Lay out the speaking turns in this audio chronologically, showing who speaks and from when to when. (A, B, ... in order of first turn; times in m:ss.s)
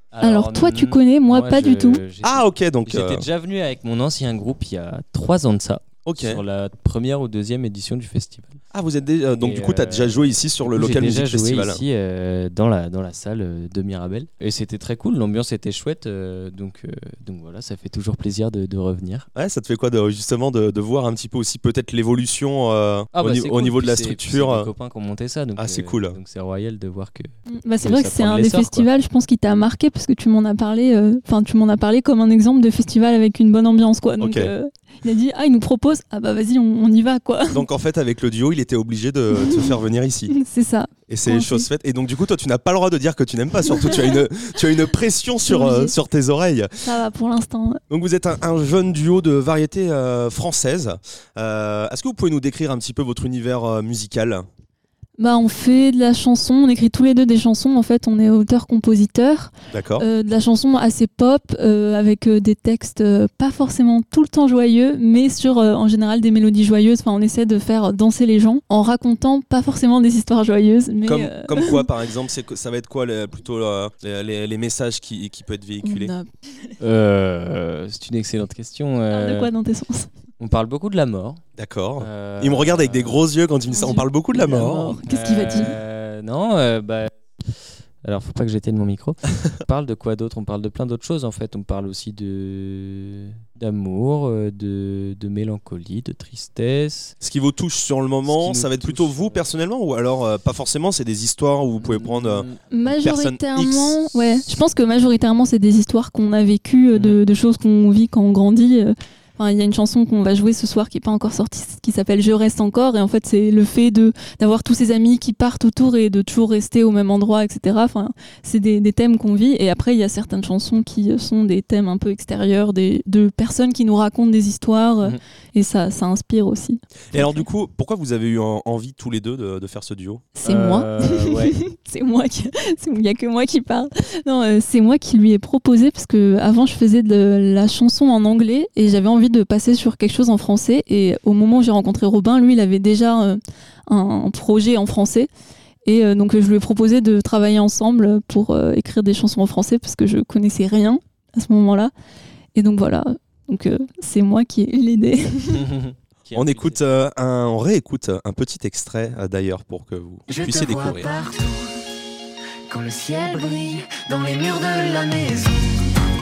0:00.1-0:08.6 A
0:00.2-0:02.0 B
0:02.2-0:03.3 C
0:06.0-0:06.4 C
0:08.7-0:11.8 C
0:09.3-0:19.3 A
0:19.3-0:24.7 C
0:23.1-0:27.3 A
0:25.6-0:26.2 C
0:27.5-0:37.6 B
0:27.8-0:28.9 A
0:34.2-0:34.5 C
0:37.5-0:40.3 C
0:39.3-0:39.8 B
0:40.3-0:41.7 B
0:41.1-0:46.7 C
0:43.9-0:44.2 B
0:45.5-0:45.9 B
0:46.8-0:47.8 B
0:47.9-0:54.4 C
0:55.2-1:11.9 B
0:59.7-1:00.1 C
1:11.0-1:16.1 C
1:15.8-1:16.3 B
1:16.8-1:19.5 A
1:19.1-1:20.1 B
1:20.4-1:21.4 A
1:21.6-1:25.0 C
1:22.0-1:23.3 A
1:23.7-1:25.8 B
1:25.0-1:37.1 A
1:37.2-1:44.2 C
1:38.2-1:39.5 A
1:41.8-1:42.6 A
1:42.7-2:07.4 B
1:46.9-1:47.2 A
2:07.1-2:10.2 C
2:10.4-2:25.3 B
2:10.4-2:11.6 A
2:25.8-2:31.9 B
2:32.5-2:35.7 B
2:35.5-2:36.8 A
2:36.3-2:41.2 C
2:40.3-2:41.7 D
2:42.7-2:45.8 D
2:42.9-2:43.3 B